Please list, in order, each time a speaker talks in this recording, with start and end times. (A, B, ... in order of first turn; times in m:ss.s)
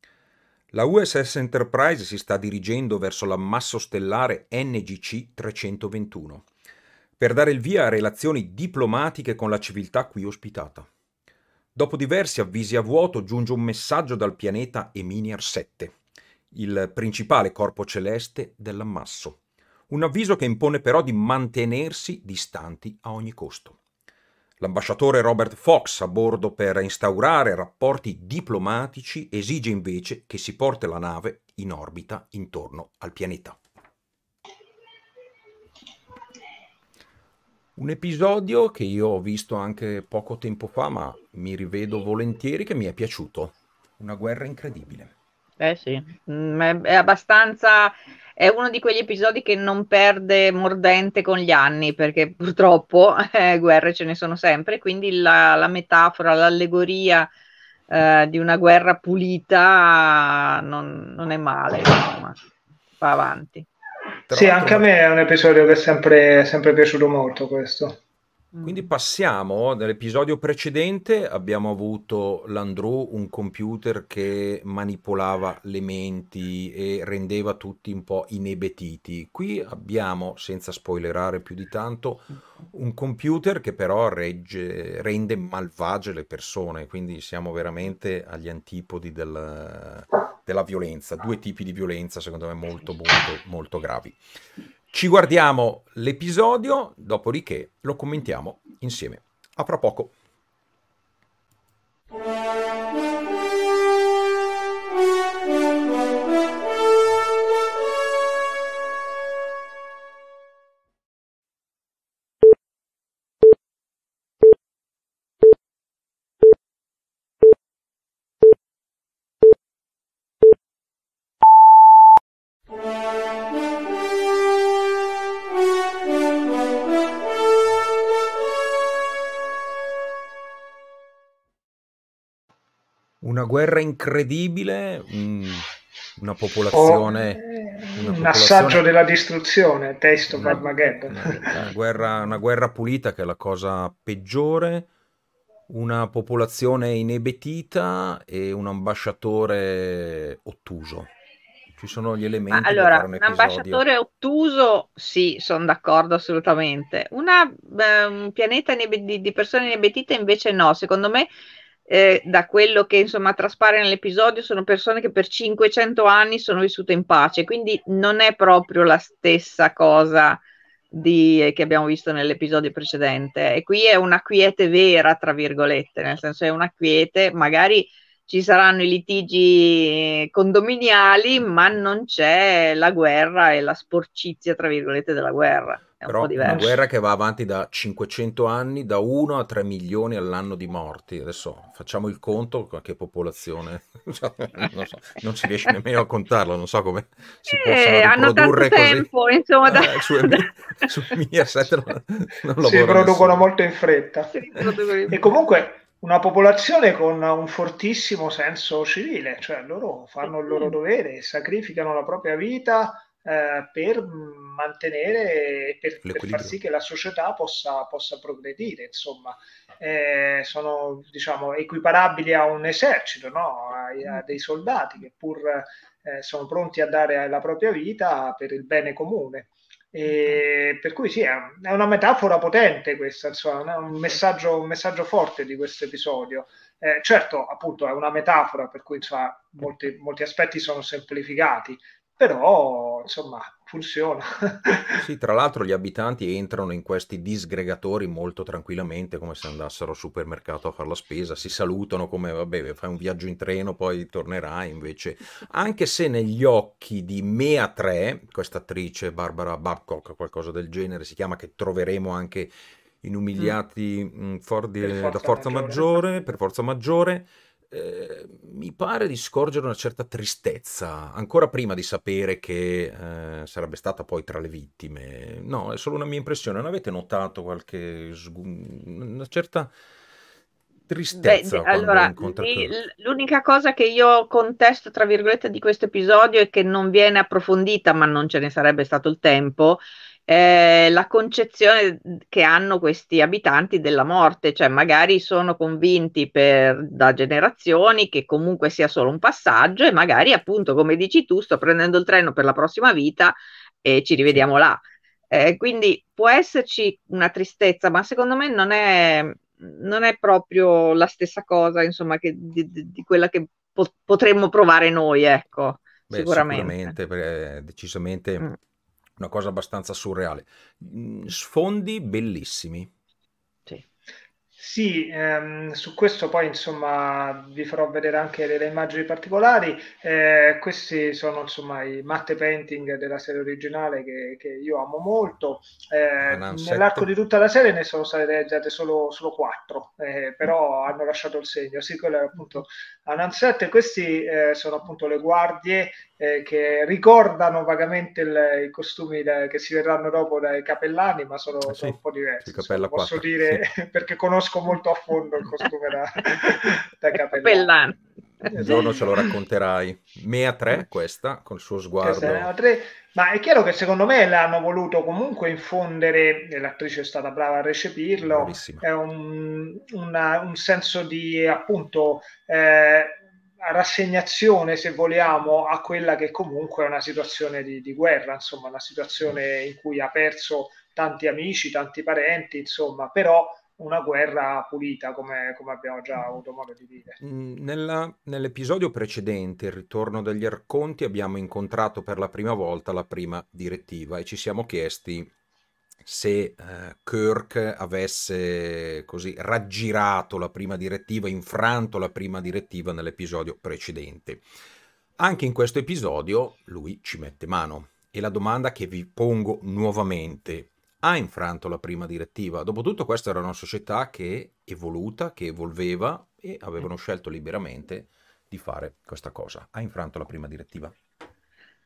0:00.7-0:06.5 A
0:07.2-0:10.9 A
0:11.7-0:16.0 A
0:16.5-0:23.8 A
0:24.6-0:33.6 A
0:37.8-0:45.1 A
0:45.6-0:57.3 B
0:57.9-1:02.4 B
1:03.0-1:03.7 B
1:04.3-1:04.9 A
1:04.3-1:08.0 C
1:08.5-1:08.8 B
1:08.6-1:34.2 A
1:34.9-1:40.1 A
2:13.2-2:17.4 A
2:16.7-2:21.5 C
2:17.9-2:18.8 A
2:20.3-2:24.9 A
2:25.7-2:31.1 A
2:31.8-2:33.8 A
2:32.5-2:41.3 B
2:41.9-3:06.7 B
3:06.0-3:19.1 A
3:06.4-3:06.8 C
3:17.5-3:20.8 B
3:19.6-3:23.4 A
3:22.6-4:05.0 C
3:24.3-3:25.2 B
3:36.0-3:36.6 A
4:05.0-4:39.7 A
4:24.8-4:26.2 C
4:40.9-4:42.8 A
4:41.2-5:17.0 B
5:16.1-5:18.5 A
5:19.2-5:22.9 A
5:24.6-5:57.7 C
5:36.2-5:37.1 A
5:51.6-5:53.6 A
5:57.3-5:58.8 B
5:58.5-5:59.2 C
5:58.5-6:02.5 A
6:02.0-6:27.2 C
6:08.2-6:08.8 A
6:27.2-6:35.3 A
6:36.0-6:44.4 A
6:45.2-7:00.9 A